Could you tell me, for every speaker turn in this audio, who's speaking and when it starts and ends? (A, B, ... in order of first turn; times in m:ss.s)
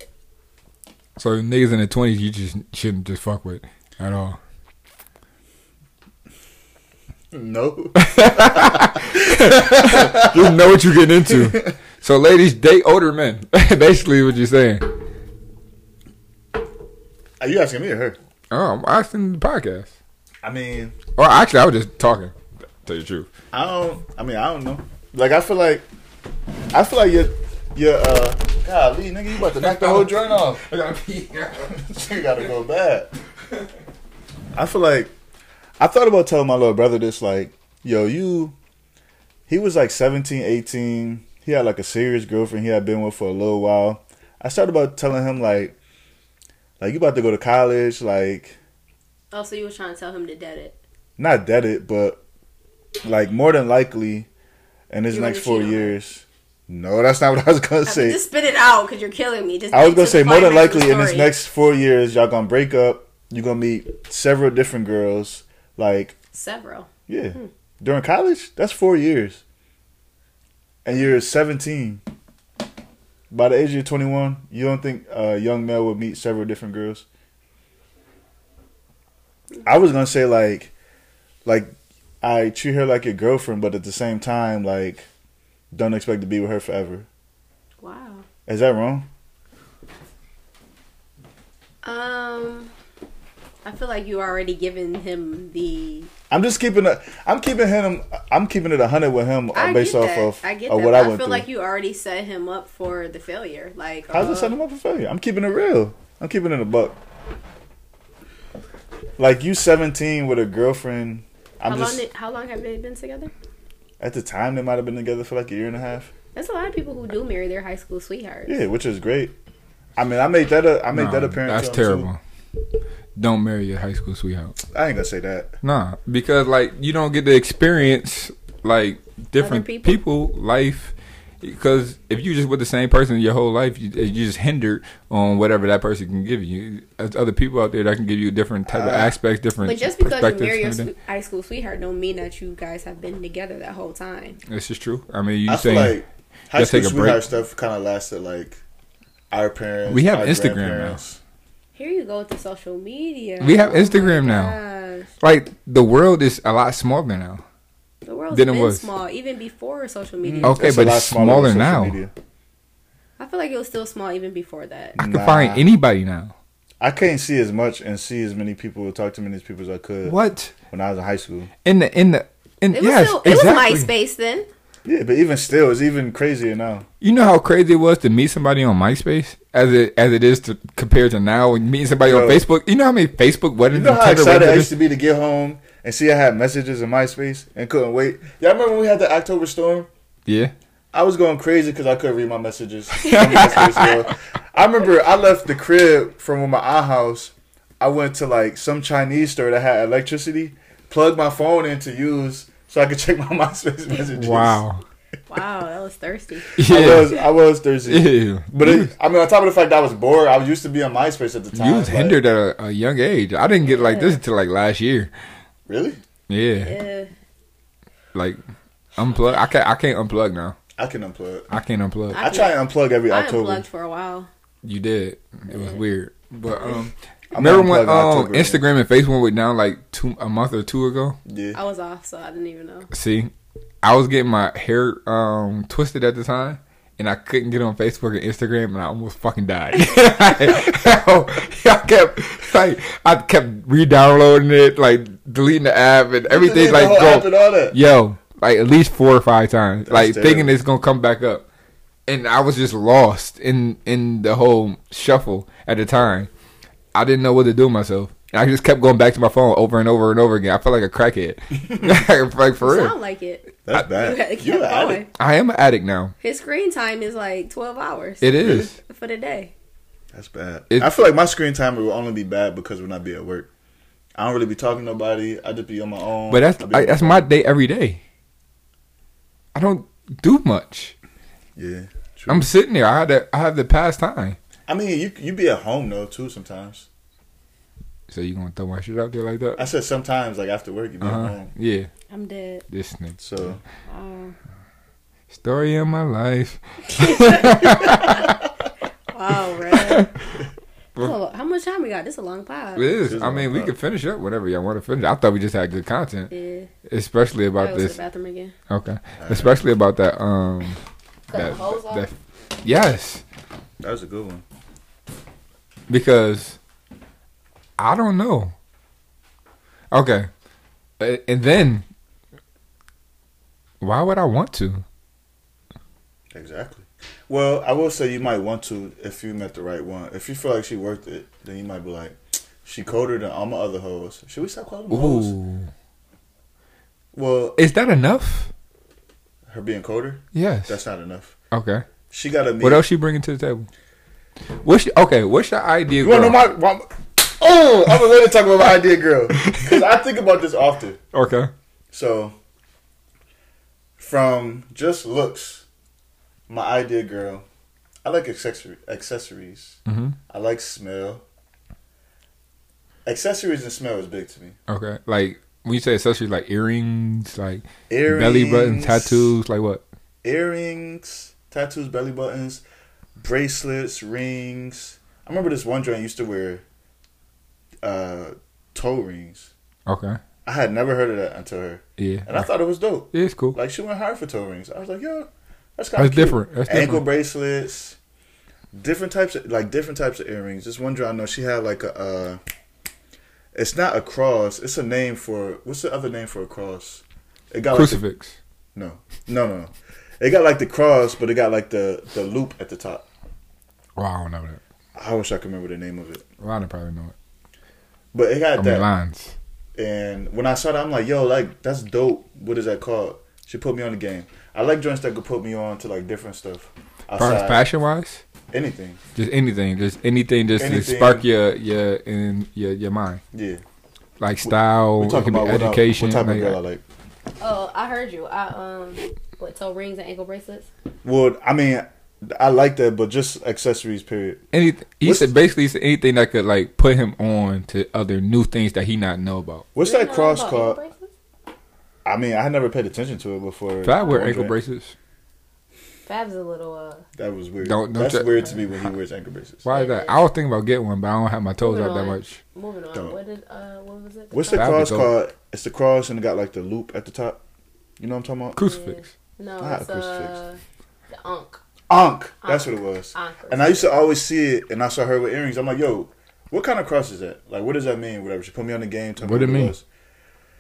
0:01.2-0:04.4 A
0:07.3-0:11.8 B
0:08.0-0:14.9 A
0:17.4-0:18.2 B
0:18.5-0:19.9 A
0:20.4-0:21.0 B
0:21.2-0:23.3 A
0:23.5-0:25.8 B
0:26.7-0:30.6 B
0:29.6-0:31.8 A
0:31.7-0:33.1 B
0:34.5-0:35.1 B
0:35.8-0:38.6 B
0:39.5-0:45.8 B
0:46.8-0:48.6 B
0:49.3-0:50.8 C
0:51.2-0:52.2 B
0:53.0-0:54.3 B
0:54.9-0:58.2 B
0:55.1-0:56.0 C
0:57.9-1:01.3 C
0:59.7-1:06.2 B
1:06.3-1:07.5 C
1:07.1-1:09.4 B
1:10.8-1:12.0 B
1:13.3-1:17.1 B
1:19.6-1:20.7 B
1:21.4-1:25.1 B
1:25.7-1:27.1 B
1:27.8-1:28.3 C
1:28.5-1:29.1 B
1:31.8-1:32.7 C
1:33.6-1:36.1 C
1:36.3-1:41.5 B
1:39.5-1:44.5 C
1:44.1-1:47.0 B
1:49.2-1:52.0 B
1:51.7-1:53.3 C
1:54.0-1:56.1 B
1:56.4-1:58.6 C
1:58.5-1:59.3 B
2:00.0-2:02.1 B
2:00.9-2:02.2 A
2:03.2-2:04.6 A
2:04.7-2:05.6 B
2:05.6-2:20.9 A
2:09.4-2:10.0 C
2:18.7-2:19.2 B
2:19.6-2:24.4 C
2:24.5-2:26.0 A
2:25.5-2:28.6 B
2:26.6-2:27.2 A
2:29.3-2:31.2 B
2:29.9-2:31.0 A
2:31.8-2:35.1 C
2:33.4-2:34.6 A
2:35.2-2:37.4 A
2:38.0-2:40.6 C
2:38.3-2:38.9 A
2:40.2-2:42.1 B
2:40.4-2:42.0 A
2:43.2-2:45.0 C
2:45.0-2:45.6 B
2:45.0-2:46.3 A
2:46.8-2:50.2 B
2:50.0-2:50.5 A
2:50.7-2:51.5 B
2:51.6-2:53.9 A
2:52.7-2:54.5 C
2:54.8-2:56.9 B
2:57.0-3:04.8 A
3:02.0-3:02.5 B
3:03.7-3:09.9 B
3:10.3-3:10.5 A
3:10.9-3:24.6 B
3:13.0-3:14.0 A
3:13.0-3:13.9 C
3:24.1-3:24.8 A
3:25.3-3:27.2 C
3:26.6-3:27.1 A
3:26.6-3:32.2 B
3:27.9-3:28.9 A
3:31.5-3:35.1 A
3:33.6-3:34.2 C
3:35.7-3:36.0 B
3:36.3-3:36.8 A
3:36.6-3:37.1 C
3:39.0-3:40.6 A
3:40.8-3:41.5 B
3:41.5-3:42.2 A
3:42.1-3:44.3 C
3:42.2-3:43.6 B
3:44.6-3:51.2 A
3:45.5-3:45.8 C
3:47.3-3:48.6 B
3:51.2-3:51.6 B
3:51.5-3:52.9 C
3:52.9-4:11.5 A
4:06.3-4:07.8 B
4:09.9-4:10.5 B
4:12.1-4:16.3 A
4:16.9-4:23.0 A
4:22.6-4:25.1 C
4:23.6-4:25.0 B
4:25.2-4:26.1 A
4:26.2-4:29.5 C
4:28.2-4:28.7 A
4:28.4-4:28.7 B
4:30.1-4:33.5 B
4:34.2-4:37.3 B
4:36.3-4:38.0 A
4:39.6-4:41.0 A
4:41.6-4:42.5 B
4:42.3-4:44.4 A
4:44.7-4:46.9 B
4:48.1-4:49.7 A
4:49.6-4:51.5 B
4:51.0-4:51.9 A
4:52.1-4:52.7 C
4:52.7-4:53.5 A
4:53.2-4:53.6 B
4:53.9-4:54.4 C
4:55.3-4:58.4 A
4:56.9-4:58.3 C
4:59.1-5:00.1 C
4:59.7-5:00.1 A
5:01.0-5:02.9 C
5:02.8-5:06.3 A
5:03.0-5:03.7 B
5:06.3-5:06.7 C
5:06.9-5:08.0 A
5:07.6-5:08.5 C
5:08.7-5:10.8 A
5:09.2-5:09.6 B
5:11.3-5:12.1 C
5:11.3-5:13.2 A
5:13.8-5:14.4 B
5:15.9-5:16.6 A
5:17.8-5:18.6 A
5:19.9-5:20.3 A
5:21.0-5:21.8 A
5:23.8-5:24.8 A
5:26.3-5:35.3 B
5:34.9-5:35.7 A
5:37.1-5:37.6 B
5:37.6-5:38.5 A
5:39.5-5:41.3 B
5:40.3-5:40.8 A
5:41.5-5:41.8 A
5:42.1-5:42.9 B
5:42.6-5:43.7 A
5:44.6-5:46.4 A
5:46.0-5:51.0 B
5:49.4-5:49.8 A
5:51.1-5:51.5 A
5:51.9-5:52.3 B
5:54.0-5:55.6 B
5:56.5-5:57.4 B
5:58.0-6:01.2 B
5:59.9-6:00.2 A
6:03.0-6:04.6 B
6:04.7-6:09.8 A
6:07.9-6:09.3 B
6:10.2-6:12.6 B
6:13.2-6:16.6 B
6:17.8-6:19.5 B
6:19.9-6:20.2 A
6:20.4-6:28.0 B
6:22.0-6:22.5 A
6:23.1-6:23.6 A
6:26.0-6:27.1 A
6:28.7-6:32.4 B
6:33.6-6:38.0 B
6:37.7-6:38.4 A
6:38.8-6:43.1 B
6:44.0-6:44.6 A
6:45.0-6:46.2 B
6:46.4-6:47.1 A
6:48.1-6:48.9 B
6:48.6-6:49.4 A
6:49.8-6:57.6 B
6:57.2-6:58.2 A
6:58.5-6:59.0 B
6:59.2-7:03.2 A
7:00.6-7:01.3 B
7:03.3-7:03.6 B
7:04.2-7:06.6 A
7:04.4-7:06.8 B
7:07.4-7:10.7 C
7:11.0-7:14.4 B
7:14.5-7:19.7 A
7:15.0-7:15.3 B
7:19.8-7:20.8 B
7:19.8-7:21.1 C
7:22.0-7:24.5 B
7:23.8-7:24.9 A
7:26.1-7:27.0 C
7:27.2-7:29.6 B
7:27.6-7:28.9 A
7:29.6-7:32.4 A
7:29.7-7:30.2 C
7:31.6-7:34.8 C
7:34.3-7:37.4 B
7:34.5-7:35.1 A
7:38.0-7:38.6 B
7:38.6-7:39.1 A
7:38.6-7:40.6 C
7:39.6-7:40.4 B
7:41.1-7:41.6 C
7:41.9-7:49.8 B
7:42.4-7:43.9 C
7:49.2-7:49.7 A